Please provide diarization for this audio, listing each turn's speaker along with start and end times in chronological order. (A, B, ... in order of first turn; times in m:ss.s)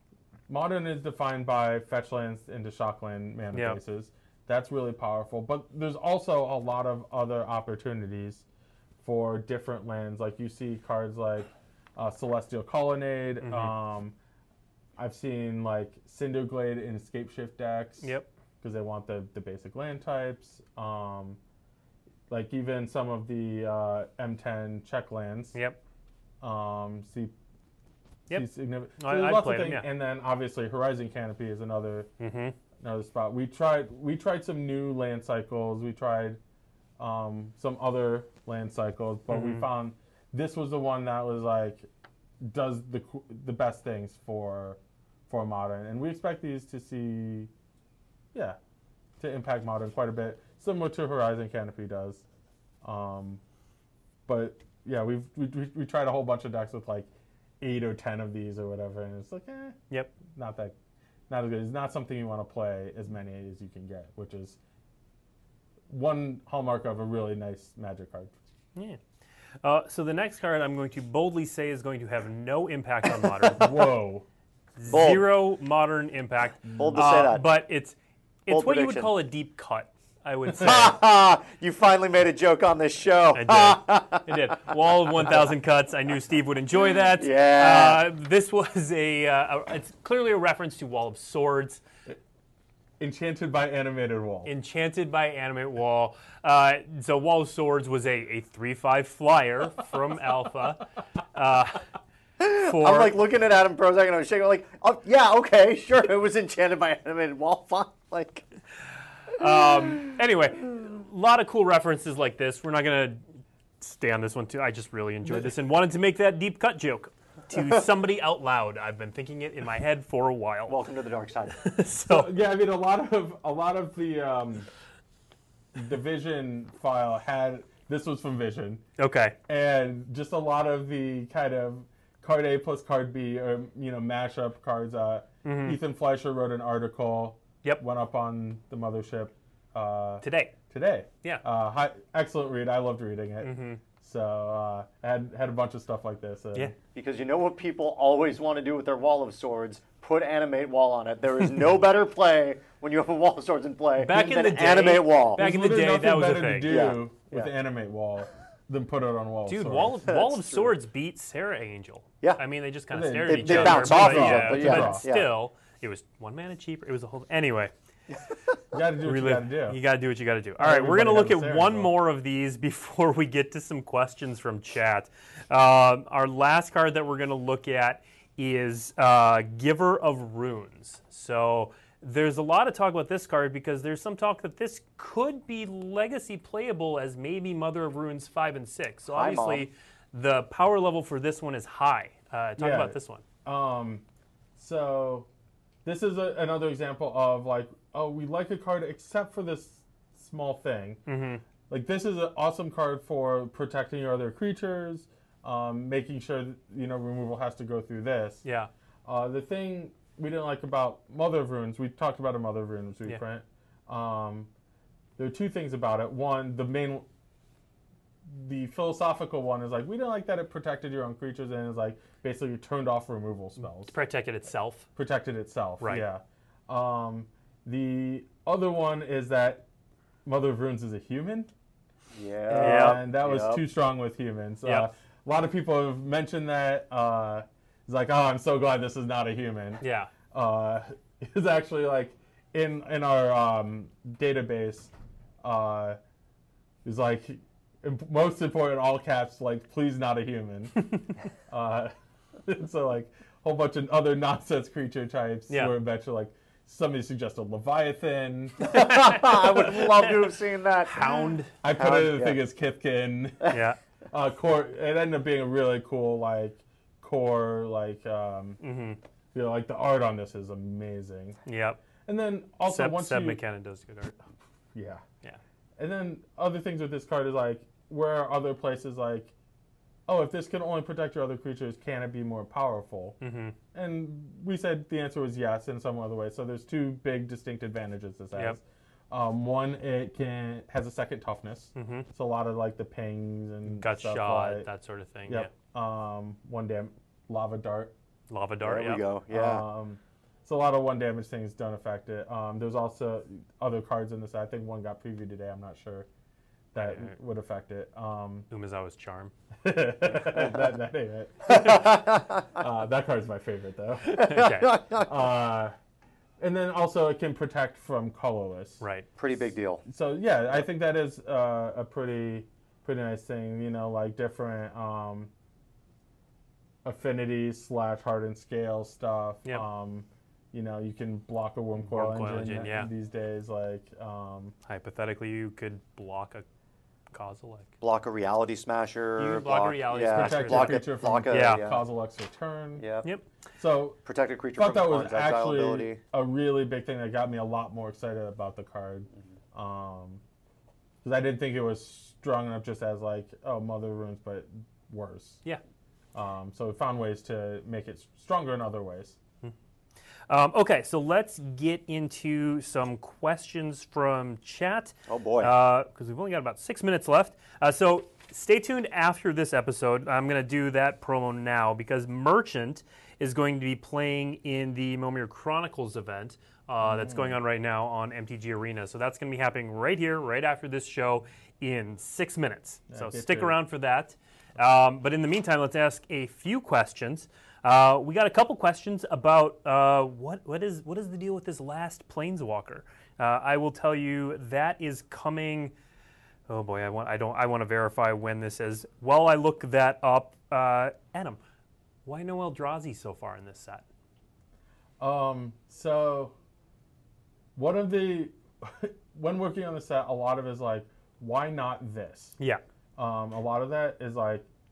0:00.5-0:08.4 A
0:03.5-0:03.8 B
0:09.0-0:14.1 A
0:13.4-0:13.7 B
0:15.0-0:21.4 A
0:18.0-0:18.3 B
0:22.3-0:25.6 A
0:25.5-0:25.8 B
0:26.4-0:27.3 A
0:28.3-0:29.9 B
0:28.3-0:32.1 A
0:32.2-0:32.6 B
0:32.8-0:36.4 A
0:37.0-0:41.9 A
0:39.3-0:39.7 B
0:42.4-0:47.5 A
0:48.3-0:48.6 A
0:49.2-0:52.2 A
0:52.8-0:53.4 A
0:54.2-0:57.1 A
0:57.6-1:00.8 A
0:59.9-1:00.2 B
1:01.3-1:04.6 A
1:05.9-1:08.3 A
1:09.6-1:13.7 B
1:13.5-1:14.2 A
1:14.8-1:21.0 B
1:14.9-1:15.3 C
1:16.7-1:17.0 A
1:16.7-1:17.5 C
1:18.5-1:19.1 C
1:20.5-1:24.5 C
1:23.3-1:31.8 B
1:27.2-1:28.0 C
1:33.0-1:34.5 A
1:34.4-1:41.8 B
1:42.4-1:48.4 C
1:42.5-1:43.2 B
1:49.4-1:53.2 B
1:53.8-2:00.8 B
2:00.7-2:01.7 C
2:01.6-2:02.3 B
2:02.0-2:04.7 A
2:05.7-2:08.8 A
2:09.0-2:09.3 B
2:09.5-2:26.8 A
2:15.4-2:15.8 B
2:20.2-2:20.5 B
2:23.4-2:23.8 B
2:26.9-2:35.4 C
2:34.0-2:36.8 B
2:35.4-2:40.0 A
2:36.7-2:37.5 C
2:39.5-2:47.7 B
2:40.0-2:40.7 C
2:42.9-2:45.0 A
2:43.2-2:45.3 C
2:48.7-2:49.8 A
2:49.0-3:13.2 B
2:50.6-2:51.9 A
3:09.1-3:09.6 C
3:12.6-3:14.0 A
3:14.6-3:15.3 A
3:15.8-3:21.0 A
3:21.0-3:21.4 B
3:21.7-3:28.4 A
3:28.4-3:28.7 B
3:29.0-3:34.5 A
3:35.2-3:37.0 A
3:38.3-3:43.9 A
3:43.8-3:44.9 B
3:45.0-3:49.6 A
3:50.2-3:51.5 A
3:52.1-3:53.6 C
3:52.5-4:06.0 A
3:52.5-3:53.0 B
3:54.6-3:54.9 B
3:59.8-4:00.1 B
4:06.8-4:11.9 A
4:12.4-4:18.9 A
4:15.5-4:15.7 B
4:18.7-4:22.4 C
4:18.7-4:21.5 B
4:21.6-4:28.6 A
4:23.5-4:23.8 B
4:28.6-4:29.0 B
4:29.3-4:31.4 A
4:31.4-4:31.8 B
4:32.0-4:33.4 A
4:32.7-4:34.2 B
4:34.7-4:35.0 A
4:35.8-4:39.3 A
4:40.1-4:43.2 A
4:43.2-4:43.6 B
4:43.7-4:54.7 A
4:48.3-4:48.6 B
4:51.7-4:52.1 B
4:53.7-4:55.5 B
4:55.3-4:57.9 A
4:58.3-4:59.1 B
4:58.6-4:59.6 C
4:59.3-5:06.1 A
5:06.7-5:08.5 A
5:06.8-5:07.1 B
5:08.5-5:09.3 B
5:09.6-5:14.3 A
5:10.2-5:10.7 C
5:11.5-5:12.4 C
5:14.1-5:15.2 C
5:14.2-5:14.8 B
5:15.0-5:15.7 A
5:16.4-5:18.8 A
5:18.8-5:19.1 B
5:19.2-5:19.8 C
5:19.8-5:25.3 A
5:26.8-5:34.5 A
5:31.9-5:32.9 B
5:34.6-5:36.4 B
5:37.1-5:37.7 B
5:37.8-5:41.8 C
5:39.2-5:41.6 B
5:40.0-5:42.8 A
5:42.8-5:43.1 C
5:43.6-5:44.0 A
5:44.0-5:46.0 C
5:44.5-5:50.2 A
5:51.0-5:55.4 A
5:56.1-5:59.2 A
6:00.3-6:35.7 B
6:05.1-6:05.5 C
6:16.8-6:17.4 A
6:22.9-6:23.6 A
6:36.5-6:41.4 B
6:42.0-6:43.8 B
6:45.0-6:46.3 A
6:47.5-6:52.4 A
6:52.4-6:52.6 B
6:53.0-6:54.5 A